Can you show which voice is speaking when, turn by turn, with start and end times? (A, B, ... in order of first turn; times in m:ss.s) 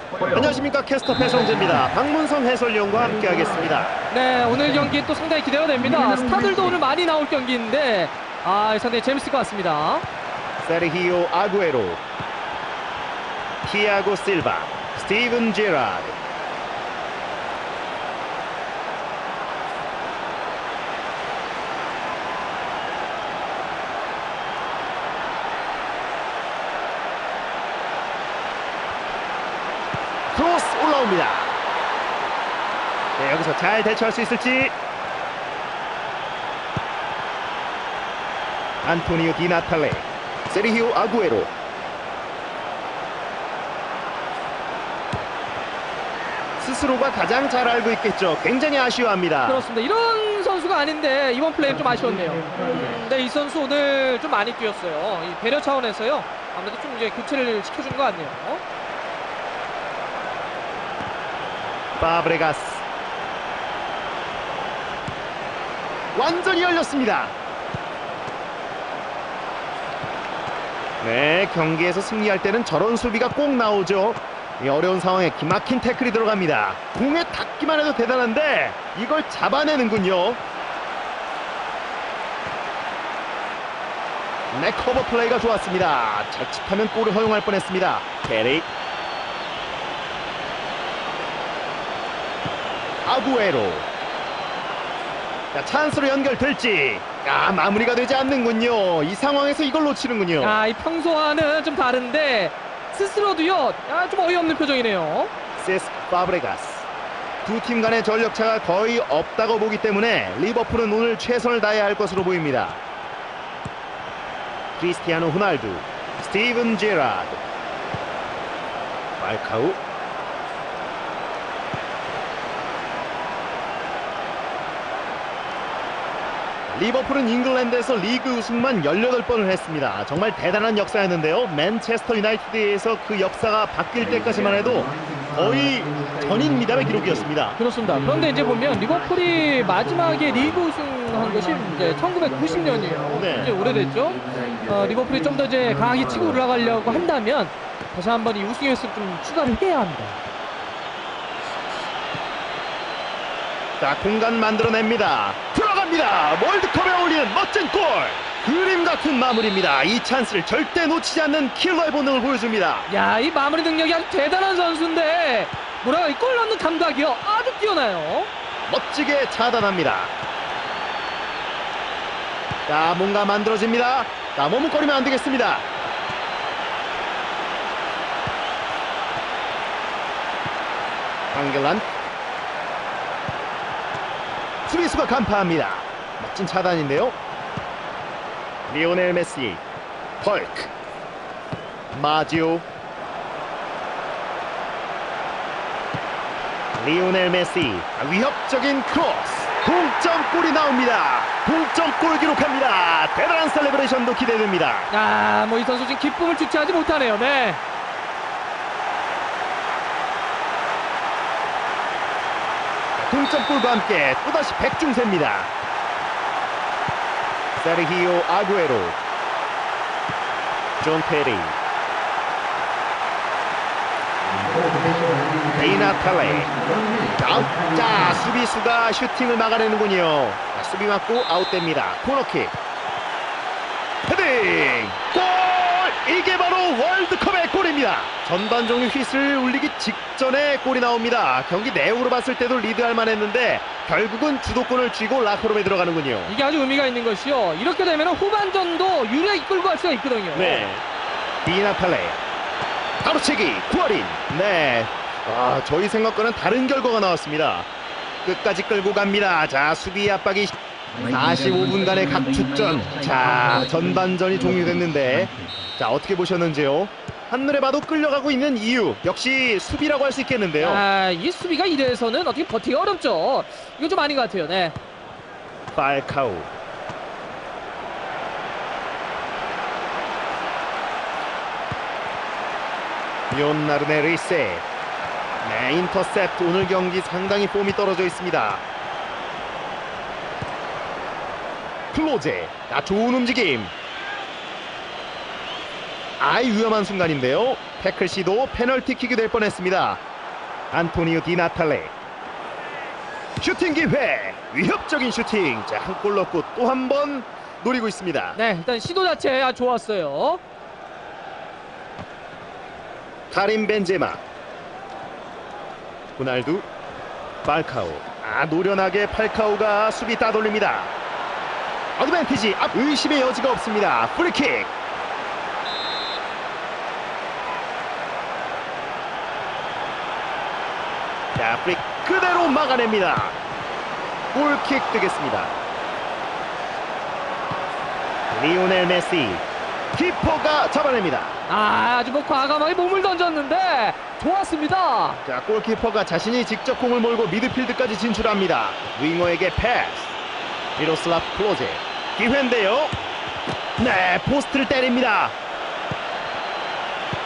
0:00.3-0:03.9 A
0:04.1-0:10.0 B
0:10.6-0:12.0 A
0:13.6-0:16.2 A
0:30.3-0:31.6 A
0:33.2-0:34.7 A
0:38.8-0:41.5 A
0:46.6-0:49.6 A
0:49.4-0:58.6 B
1:02.0-1:02.8 A
1:06.1-1:07.3 A
1:11.0-1:20.4 A
1:24.5-1:28.7 A
1:33.0-1:33.9 A
1:35.5-1:40.6 A
1:40.4-1:45.3 B
1:45.6-1:46.9 A
1:47.4-1:52.8 A
1:54.8-1:57.4 A
1:59.2-1:59.8 A
2:06.7-2:17.6 A
2:17.6-2:30.2 B
2:23.1-2:23.5 A
2:33.8-2:42.9 A
2:42.9-2:48.3 B
2:48.7-2:50.1 A
2:52.7-2:55.6 A
3:01.3-3:01.8 A
3:04.7-3:07.1 A
3:08.7-3:09.6 A
3:10.2-3:10.7 A
3:11.9-3:12.6 A
3:16.8-3:24.9 A
3:24.9-3:27.6 B
3:33.0-3:35.5 A
3:37.6-3:39.0 A
3:40.8-3:41.6 A
3:45.5-3:46.5 A
3:47.2-3:52.5 A
3:54.1-4:06.3 A
4:06.3-4:10.7 B
4:10.3-4:10.8 A
4:11.4-4:12.2 A
4:13.0-4:17.7 A
4:18.2-4:30.8 A
4:30.6-4:34.7 B
4:35.7-4:36.5 A
4:43.3-4:44.6 A
4:45.4-4:48.6 A
4:51.9-4:53.7 A
4:56.2-5:00.0 A
5:00.7-5:01.9 A
5:03.4-5:08.4 A
5:08.3-5:10.4 B
5:13.3-5:14.2 A
5:16.2-5:16.6 A
5:17.4-5:20.9 A
5:22.0-5:24.7 A
5:31.4-5:33.4 A
5:34.3-5:35.5 A
5:38.3-5:41.4 A
5:41.5-5:45.2 B
5:45.2-5:50.2 A
5:50.8-5:52.9 A
5:53.8-5:55.3 A